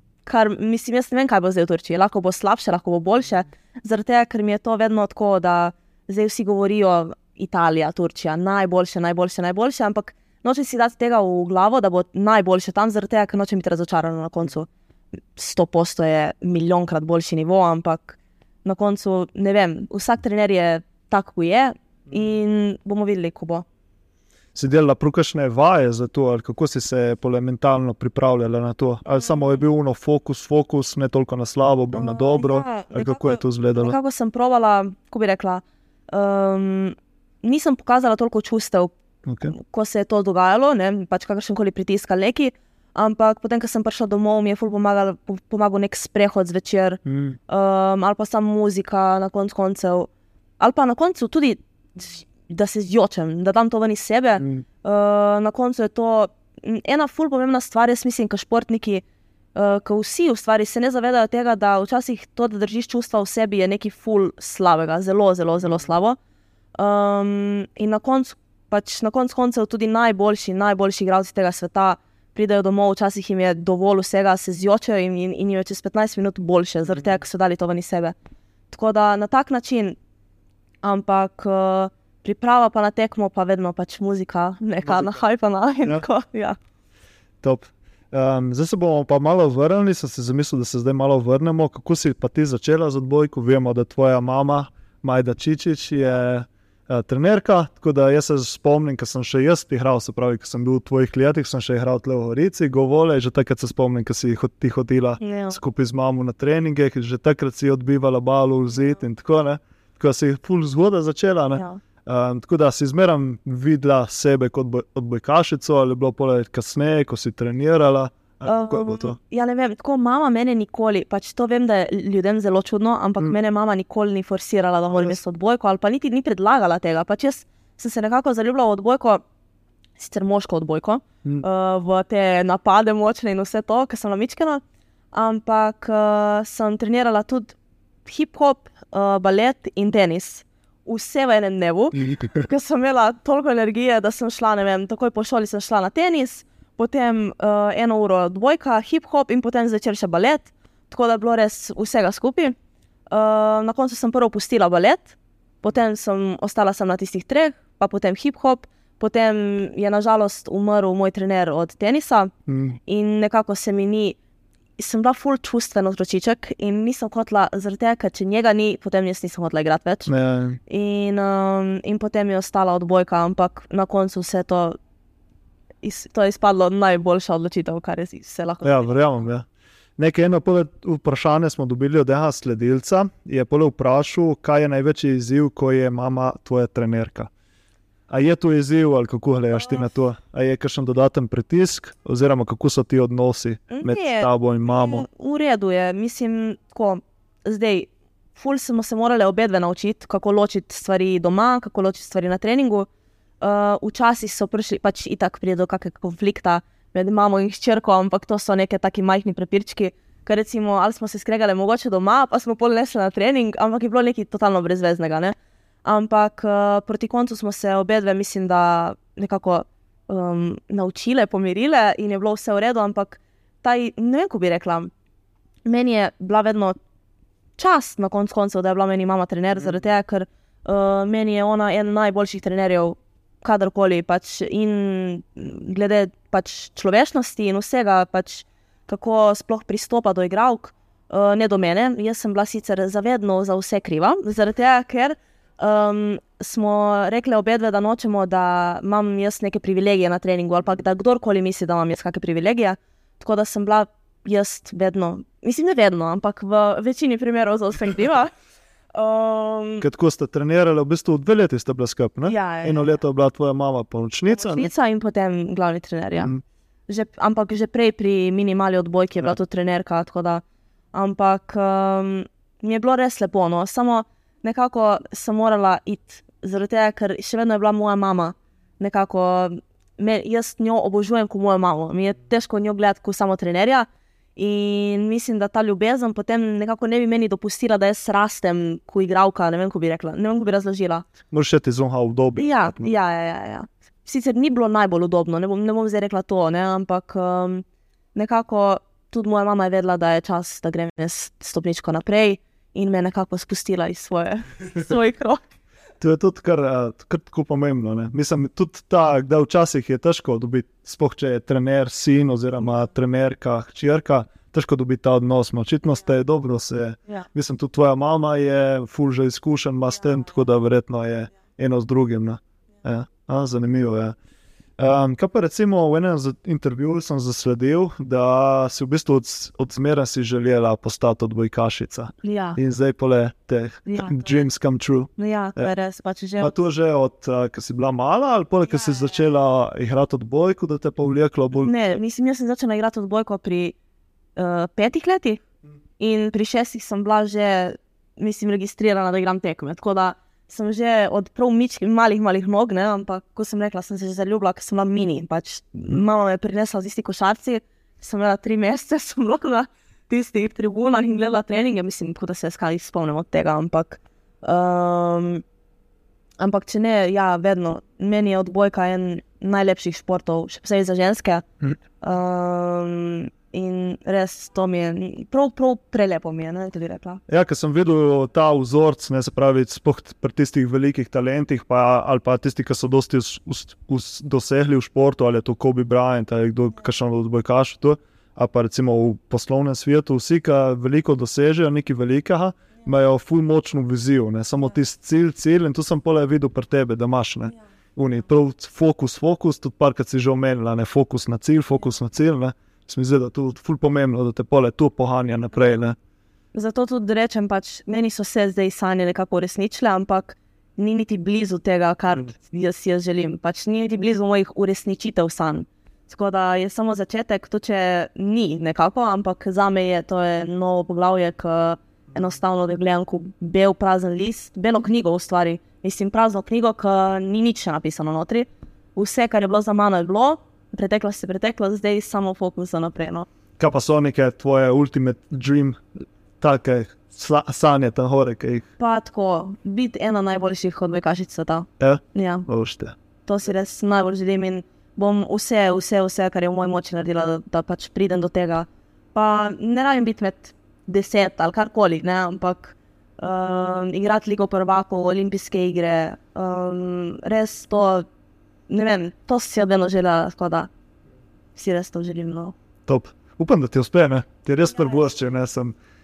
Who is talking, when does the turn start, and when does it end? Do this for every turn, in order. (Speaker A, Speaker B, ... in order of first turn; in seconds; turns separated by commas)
Speaker A: 0.3-14.7, Speaker A: 15.3-23.6, Speaker B: 24.6-34.0, Speaker A: 29.1-29.6, Speaker A: 31.9-38.9, Speaker B: 39.3-39.5, Speaker A: 39.5-50.1, Speaker B: 47.1-47.4, Speaker A: 50.6-59.0, Speaker B: 54.4-54.6, Speaker A: 59.5-66.2, Speaker A: 66.8-78.2, Speaker A: 78.7-80.0, Speaker A: 80.8-86.6, Speaker B: 84.8-85.2, Speaker B: 87.4-119.2, Speaker A: 105.2-105.6, Speaker A: 118.5-129.2, Speaker A: 130.0-134.6, Speaker A: 135.1-152.6, Speaker A: 153.1-162.3, Speaker B: 162.5-162.8, Speaker A: 162.9-164.2, Speaker A: 164.8-170.1, Speaker B: 170.1-170.6, Speaker A: 170.7-174.8, Speaker A: 175.8-178.9, Speaker B: 178.6-179.5, Speaker B: 180.0-187.3, Speaker B: 188.1-195.1, Speaker A: 193.7-202.9, Speaker A: 203.4-224.9, Speaker A: 225.7-226.8, Speaker A: 227.6-258.3, Speaker A: 258.9-259.9, Speaker B: 259.8-264.7, Speaker A: 262.2-263.0, Speaker A: 264.3-266.3, Speaker A: 266.9-270.4, Speaker A: 270.9-291.1, Speaker B: 291.3-292.9, Speaker A: 292.4-305.4, Speaker B: 306.0-324.1, Speaker B: 324.8-335.7, Speaker A: 332.2-332.6, Speaker A: 333.9-334.4, Speaker A: 335.2-336.5, Speaker B: 336.4-341.7, Speaker A: 341.6-343.8, Speaker A: 344.4-345.4, Speaker A: 346.0-365.4, Speaker A: 366.4-371.5, Speaker A: 372.0-377.2, Speaker B: 377.3-406.0, Speaker A: 406.5-433.3, Speaker B: 433.6-435.8, Speaker B: 436.4-438.6, Speaker A: 438.8-442.4, Speaker B: 441.8-443.0, Speaker A: 443.3-458.1, Speaker A: 458.7-460.7, Speaker A: 461.6-462.5, Speaker B: 462.9-465.8